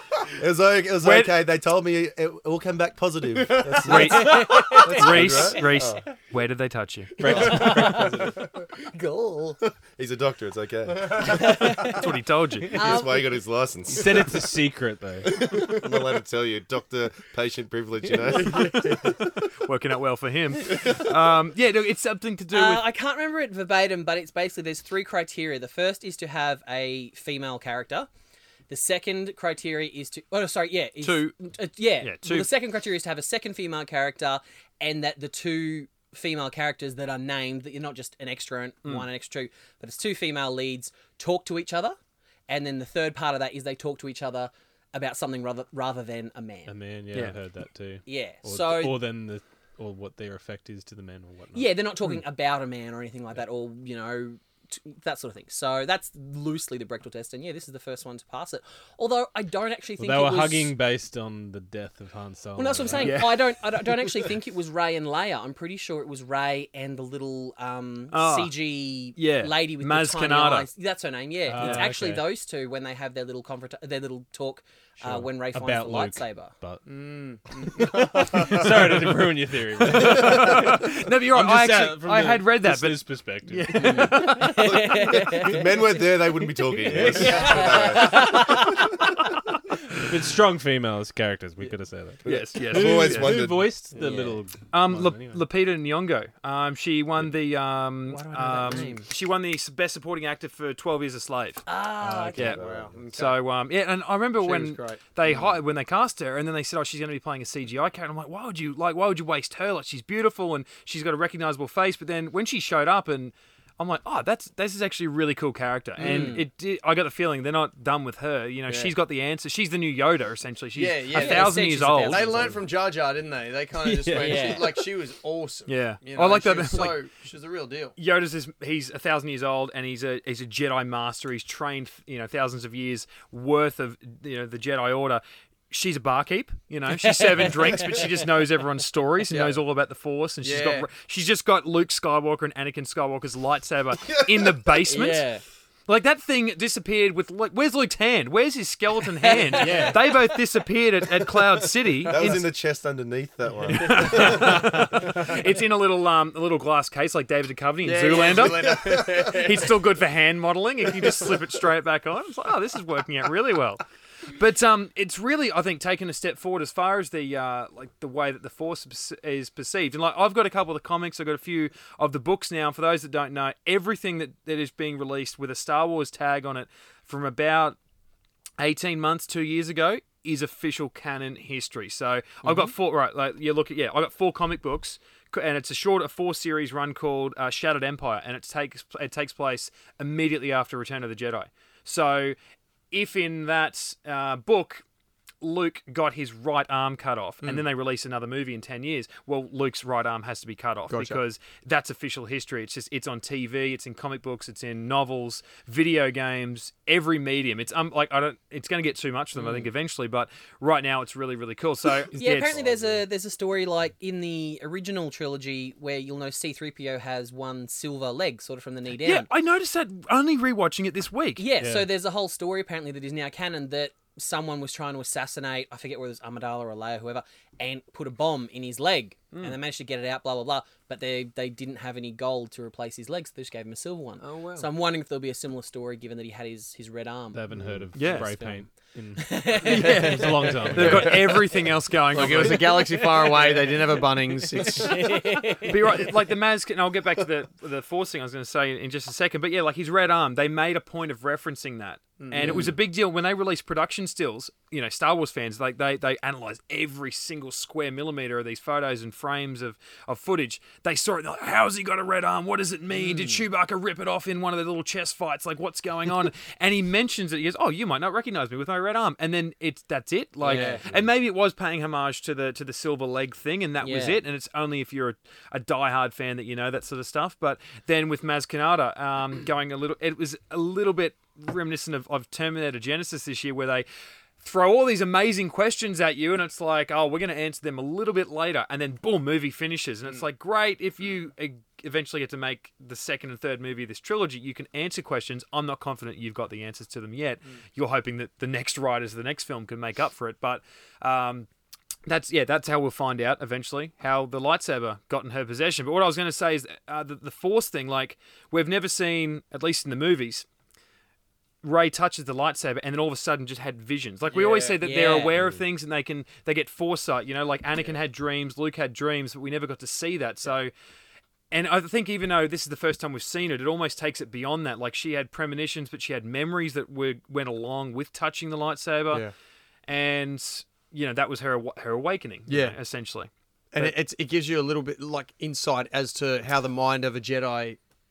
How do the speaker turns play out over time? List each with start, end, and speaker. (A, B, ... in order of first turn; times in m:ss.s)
0:00.2-0:06.0 A
0:01.0-0:01.3 B
0:03.4-0:04.5 C
0:03.8-0:07.2 B
0:03.8-0:05.8 D
0:07.2-0:08.4 E
0:07.2-0:07.5 C
0:07.2-0:08.3 D
0:07.4-0:07.8 A
0:08.9-0:09.6 D
0:10.0-0:11.8 A
0:11.2-0:12.0 D
0:11.8-0:12.8 B
0:12.7-0:13.3 D
0:12.7-0:14.5 A
0:13.9-0:15.5 E
0:15.4-0:19.1 A
0:18.4-0:19.1 C
0:18.7-0:22.8 B
0:22.5-0:28.1 D
0:28.7-0:42.0 D
0:31.0-0:31.3 B
0:32.0-0:32.5 B
0:42.5-0:46.7 D
0:46.7-0:51.7 E
0:48.0-0:49.0 D
0:51.5-1:00.7 D
1:00.0-1:03.3 E
1:02.5-1:16.5 D
1:03.0-1:03.5 B
1:08.1-1:08.5 B
1:09.2-1:10.7 B
1:11.5-1:12.3 E
1:11.6-1:11.9 B
1:15.0-1:16.8 E
1:16.9-1:18.9 C
1:17.6-1:24.3 E
1:19.8-1:24.8 B
1:23.7-1:25.8 D
1:24.5-1:28.6 A
1:26.9-1:27.5 E
1:26.9-1:29.0 D
1:27.2-1:27.8 C
1:29.9-1:35.4 E
1:32.2-1:33.4 B
1:32.2-1:33.7 A
1:33.9-1:34.2 C
1:34.0-1:34.4 D
1:34.7-1:41.6 B
1:38.1-1:39.0 D
1:41.6-1:42.6 D
1:42.3-1:43.0 A
1:42.5-1:43.4 C
1:43.1-2:02.3 B
1:44.4-1:45.0 C
1:56.0-1:56.4 D
1:56.0-1:56.4 C
1:58.7-1:58.9 C
2:00.7-2:07.9 C
2:01.1-2:02.5 D
2:04.1-2:04.8 D
2:05.7-2:07.0 B
2:08.0-2:25.2 B
2:17.0-2:18.1 D
2:19.3-2:19.6 C
2:20.4-2:20.9 C
2:24.1-2:24.5 A
2:24.9-2:25.4 D
2:25.9-2:32.5 B
2:29.2-2:30.2 D
2:29.6-2:30.0 E
2:32.0-2:35.1 A
2:33.6-2:57.8 B
2:37.8-2:39.7 C
2:38.4-2:39.0 A
2:58.6-3:12.4 B
3:12.9-3:14.8 B
3:15.4-3:32.6 B
3:20.9-3:21.2 C
3:32.1-3:39.3 D
3:32.6-3:32.9 A
3:39.0-3:41.4 B
3:41.4-3:57.4 D
3:41.6-3:41.9 E
3:54.2-3:54.7 C
3:57.3-4:01.4 E
3:57.5-3:57.9 A
3:57.9-3:58.3 B
3:58.1-3:58.6 D
3:59.1-4:01.1 D
3:59.6-4:02.7 B
3:59.8-4:01.4 C
4:02.1-4:05.4 C
4:02.5-4:03.8 D
4:04.6-4:05.9 D
4:05.6-4:43.8 B
4:12.2-4:12.7 C
4:12.4-4:12.7 D
4:22.9-4:23.4 D
4:30.4-4:30.8 D
4:30.5-4:30.8 C
4:33.8-4:34.2 D
4:44.4-5:01.5 B
5:02.1-5:10.4 B
5:11.6-5:20.7 B
5:14.3-5:14.8 C
5:14.8-5:15.3 D
5:21.5-5:29.2 B
5:29.9-5:33.9 B
5:32.5-5:32.8 C
5:33.7-5:37.8 C